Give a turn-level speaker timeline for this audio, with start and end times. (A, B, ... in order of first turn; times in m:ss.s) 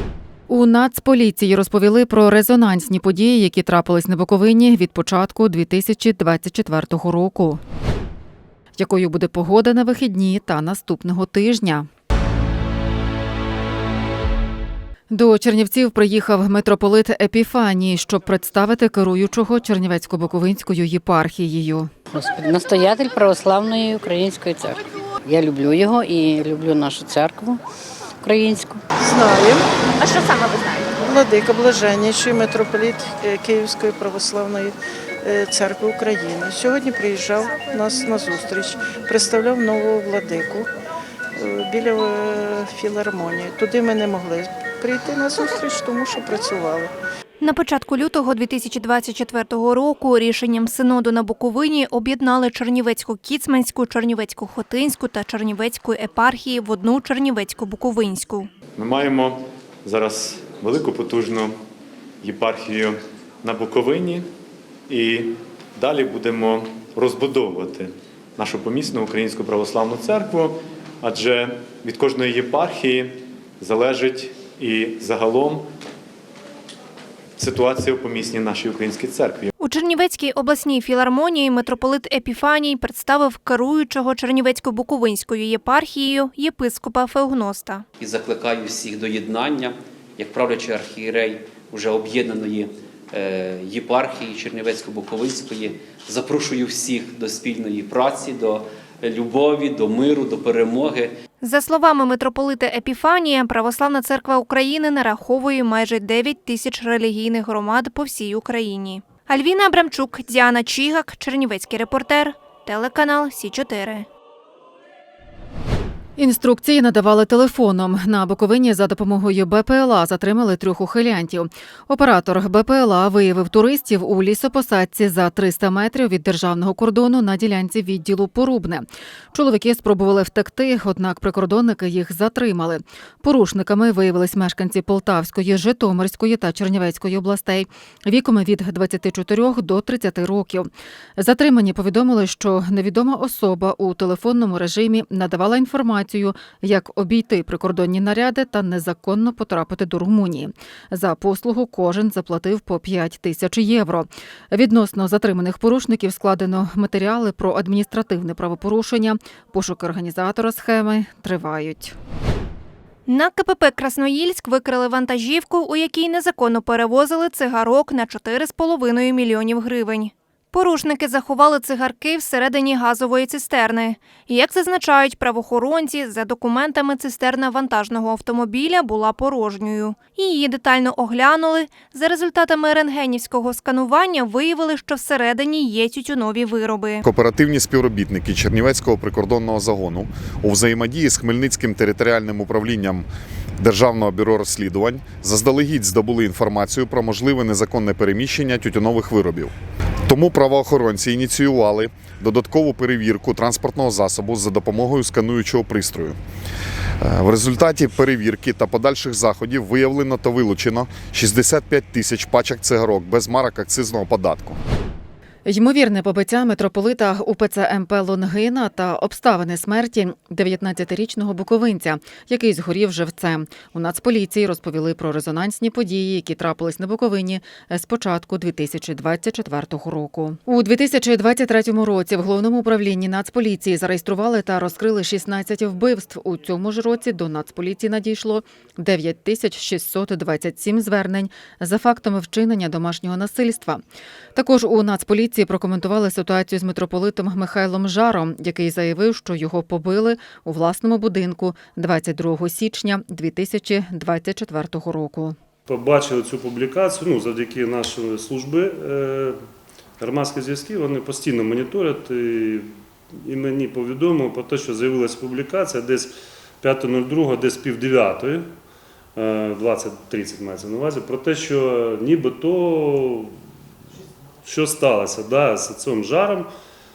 0:00.5-0:07.6 A
0:08.8-0:11.9 A
0:15.1-0:21.9 A
0:22.1-0:24.8 B
0:25.3-0:27.6 B
0:28.3-0:28.7 B
0:29.1-0:29.6 C
0:31.0-0:34.7 C
0:35.3-0:40.6 C
0:41.6-0:46.8 C
0:47.4-0:58.5 D
0:58.8-1:01.5 E
1:02.2-1:04.3 E
1:04.9-1:15.7 E
1:17.4-1:19.5 E
1:19.6-1:27.8 D
1:28.0-1:41.1 F
1:41.4-1:54.1 D
1:56.2-2:42.0 A
2:43.1-3:07.0 D
3:07.0-3:13.1 G
3:13.6-3:19.5 G
3:20.1-3:26.2 G
3:27.0-3:34.6 G
3:35.5-4:03.8 A
4:04.4-4:15.4 A
4:15.7-4:19.4 H
4:20.0-4:28.5 H
4:29.2-4:33.4 H
4:34.4-4:36.5 H